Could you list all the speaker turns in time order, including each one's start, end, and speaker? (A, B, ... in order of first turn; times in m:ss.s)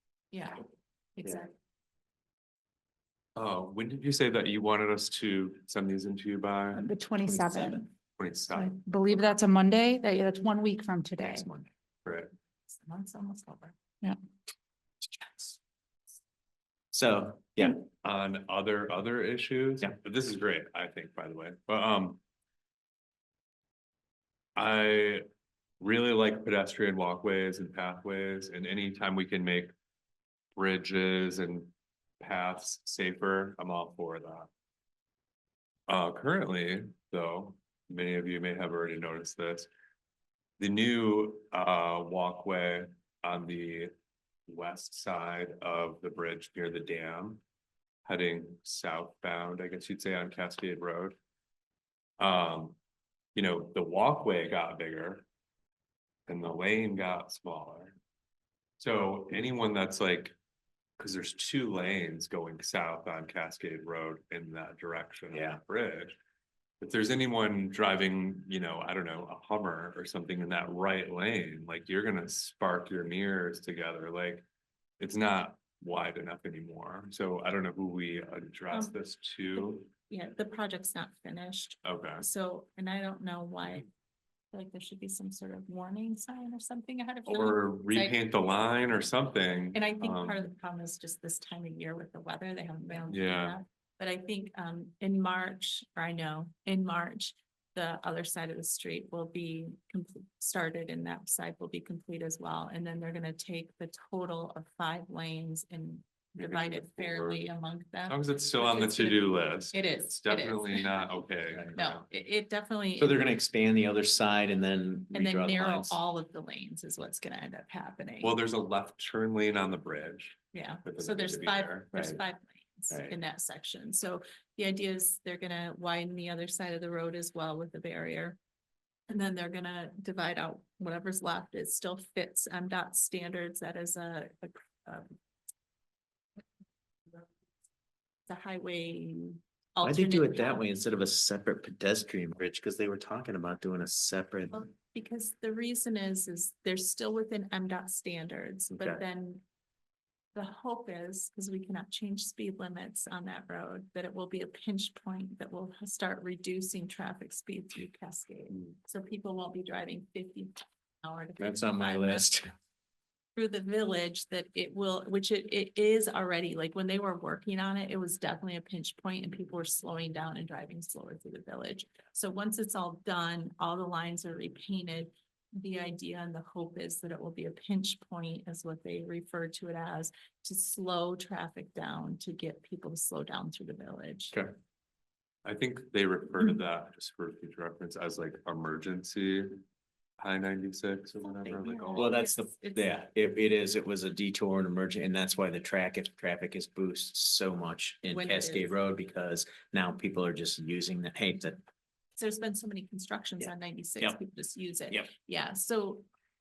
0:00.3-0:01.5 A
0:03.4-0:06.9 B
0:06.7-0:07.8 C
0:07.3-0:07.7 D
0:08.2-0:08.8 B
0:08.5-0:11.5 C
0:11.2-0:11.7 D
0:12.7-0:13.8 A
0:16.9-0:17.8 D
0:18.0-0:22.2 B
0:24.6-0:25.2 B
0:25.8-0:29.7 B
0:30.5-0:34.5 B
0:35.9-0:39.7 B
0:40.6-0:43.9 B
0:44.5-0:47.4 B
0:48.0-0:51.2 B
0:52.2-0:52.8 B
0:53.3-0:55.2 B
0:56.3-0:57.9 B
0:58.8-1:00.3 B
1:01.0-1:06.2 B
1:05.3-1:05.6 D
1:06.8-1:14.4 B
1:15.0-1:19.9 B
1:18.7-1:19.0 A
1:19.6-1:23.9 A
1:21.8-1:22.3 B
1:24.5-1:28.2 A
1:27.2-1:30.4 B
1:29.7-1:51.1 A
1:33.1-1:33.6 B
1:46.4-1:47.4 B
1:48.0-1:52.0 B
1:51.7-1:53.2 A
1:53.0-1:56.0 D
1:55.1-1:58.4 A
1:58.2-2:01.9 B
2:00.5-2:08.4 A
2:01.9-2:02.2 D
2:02.9-2:03.2 D
2:09.1-2:15.1 A
2:18.3-2:20.6 A
2:19.8-2:24.6 D
2:24.5-2:29.4 A
2:28.7-2:29.0 D
2:30.3-2:42.3 A
2:41.4-2:42.4 D
2:43.3-3:04.4 A
3:05.4-3:09.6 B
3:10.2-3:12.1 B
3:11.2-3:12.9 A
3:11.4-3:21.6 D
3:18.1-3:18.7 A
3:22.2-3:26.1 A
3:23.4-3:24.2 D